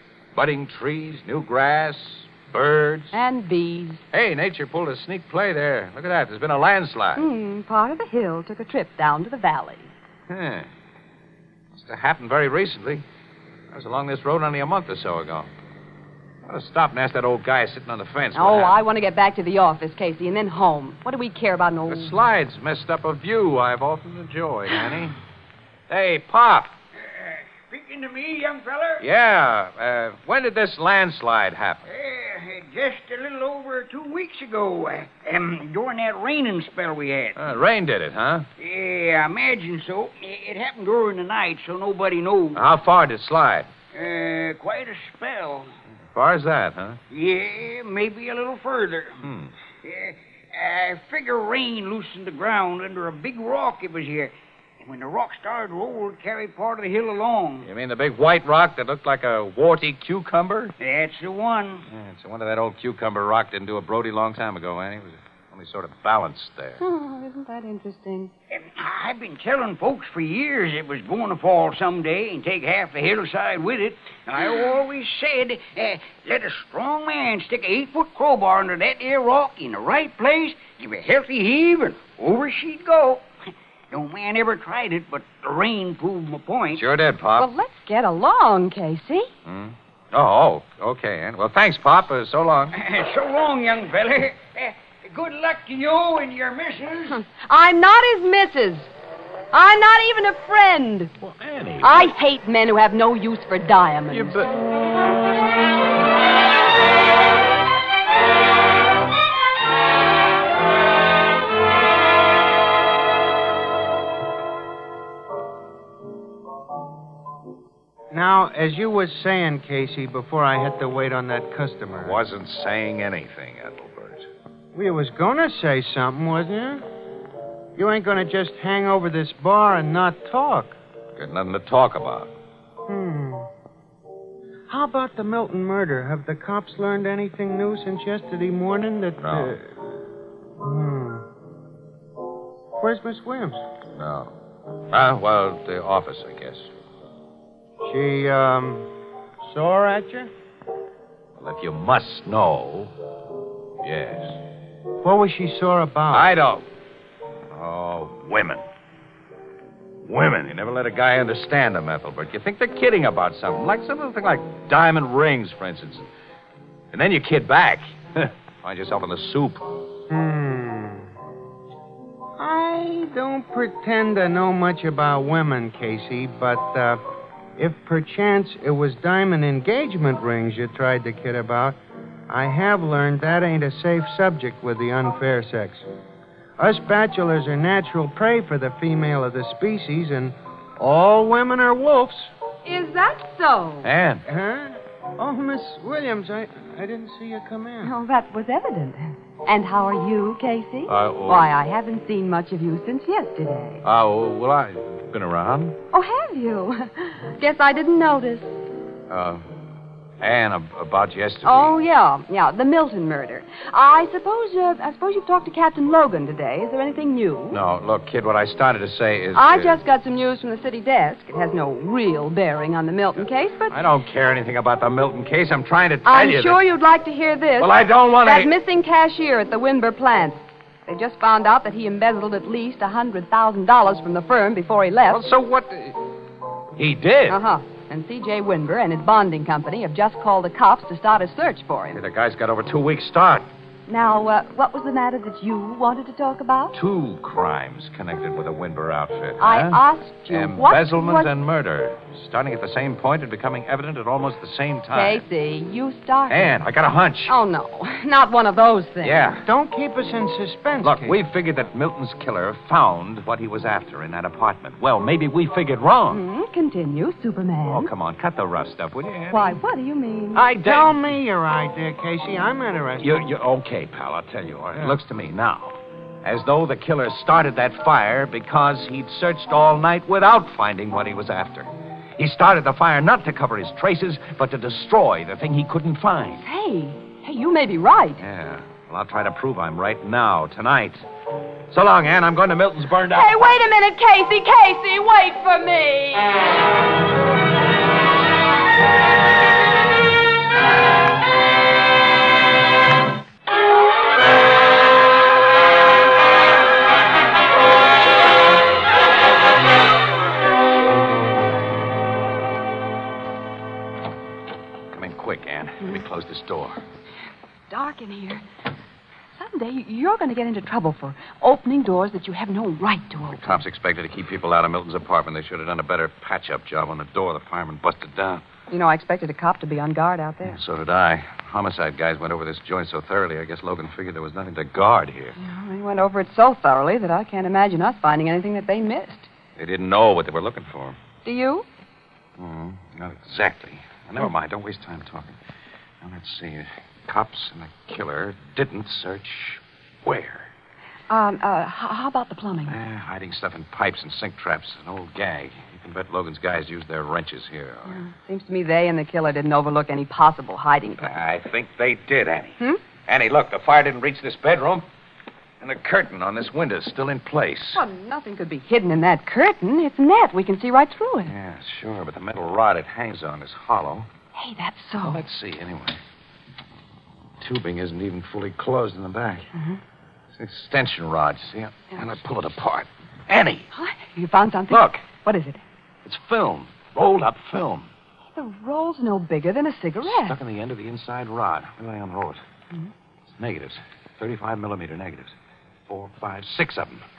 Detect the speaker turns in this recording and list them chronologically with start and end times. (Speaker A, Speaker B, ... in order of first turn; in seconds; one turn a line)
Speaker A: 0.3-3.1
Speaker B: 3.1-4.0
Speaker A: 4.1-7.2
Speaker B: 7.2-9.9
Speaker A: 10.3-10.7
Speaker A: 11.7-13.0
Speaker A: 13.7-15.5
Speaker A: 16.4-18.8
Speaker B: 18.4-22.1
Speaker A: 21.9-25.2
Speaker A: 25.9-26.7
Speaker C: 27.1-29.0
Speaker A: 29.0-31.9
Speaker C: 31.9-37.4
Speaker A: 37.4-38.5
Speaker C: 38.6-42.6
Speaker A: 42.5-43.7
Speaker C: 43.9-45.7
Speaker A: 46.1-47.0
Speaker C: 47.1-49.2
Speaker A: 49.2-49.5
Speaker C: 49.8-57.7
Speaker A: 57.6-60.8
Speaker C: 60.8-61.8
Speaker A: 61.9-66.8
Speaker B: 66.8-68.3
Speaker C: 68.5-83.3
Speaker C: 83.9-86.8
Speaker A: 86.8-87.5
Speaker B: 87.4-89.3
Speaker A: 89.5-92.8
Speaker C: 92.7-97.2
Speaker B: 97.1-98.9
Speaker B: 99.5-101.1
Speaker A: 101.2-102.1
Speaker B: 101.8-104.5
Speaker A: 104.1-104.5
Speaker D: 118.1-122.2
Speaker A: 122.0-124.3
Speaker D: 124.7-126.8
Speaker D: 127.8-130.8
Speaker A: 131.2-132.3
Speaker D: 132.9-133.5
Speaker D: 134.7-139.8
Speaker A: 139.2-139.6
Speaker D: 140.6-141.2
Speaker D: 142.8-143.6
Speaker A: 144.0-144.3
Speaker A: 144.9-146.7
Speaker D: 147.8-148.9
Speaker D: 149.5-150.3
Speaker A: 151.4-152.9
Speaker A: 153.8-154.4
Speaker D: 155.0-156.3
Speaker A: 156.1-156.7
Speaker A: 157.5-158.6
Speaker A: 160.1-166.1
Speaker A: 166.9-169.7
Speaker D: 170.1-171.1
Speaker D: 172.4-177.0
Speaker D: 177.6-181.8
Speaker D: 182.3-185.8
Speaker D: 186.6-192.3
Speaker B: 192.7-193.9
Speaker A: 193.8-194.2
Speaker D: 194.3-197.9
Speaker B: 197.8-203.8
Speaker A: 200.9-201.5
Speaker A: 203.8-205.8
Speaker B: 205.9-208.6
Speaker A: 209.1-209.4
Speaker A: 210.2-211.7
Speaker B: 211.4-217.6
Speaker A: 217.5-219.8
Speaker B: 219.3-223.8
Speaker A: 223.7-226.6
Speaker B: 226.1-235.2
Speaker A: 227.6-228.5
Speaker A: 235.1-236.0
Speaker A: 236.8-237.4
Speaker B: 237.3-242.0
Speaker A: 241.9-243.5
Speaker B: 243.9-246.8
Speaker A: 246.7-255.2
Speaker B: 249.4-251.3
Speaker B: 254.9-256.5
Speaker A: 256.3-257.3
Speaker B: 257.3-259.2
Speaker A: 259.0-259.4
Speaker D: 259.5-261.2
Speaker A: 260.8-266.2
Speaker B: 266.1-267.9
Speaker A: 267.6-269.6
Speaker B: 269.3-270.4
Speaker A: 270.4-270.9
Speaker D: 270.5-273.2
Speaker A: 273.0-286.4
Speaker B: 286.4-288.2
Speaker A: 288.2-291.1
Speaker A: 291.7-293.4
Speaker B: 293.1-296.3
Speaker A: 314.9-316.8
Speaker B: 317.7-318.4
Speaker B: 319.4-323.6
Speaker A: 323.3-328.4
Speaker B: 328.7-330.6
Speaker A: 330.4-335.4
Speaker B: 335.4-339.3
Speaker A: 339.6-341.0
Speaker B: 341.2-341.7
Speaker A: 342.4-345.4
Speaker A: 346.0-350.5
Speaker B: 351.1-352.8
Speaker A: 352.7-358.0
Speaker B: 357.9-361.1
Speaker A: 361.0-364.9
Speaker A: 365.6-367.8
Speaker B: 367.7-371.3
Speaker A: 371.3-374.1
Speaker B: 374.4-375.2
Speaker A: 375.0-376.0
Speaker A: 377.4-379.5
Speaker A: 380.4-383.7
Speaker B: 383.7-385.6
Speaker A: 384.7-385.0
Speaker A: 386.1-387.9
Speaker B: 388.4-390.4
Speaker A: 390.1-392.4
Speaker A: 393.4-395.3
Speaker A: 395.9-397.0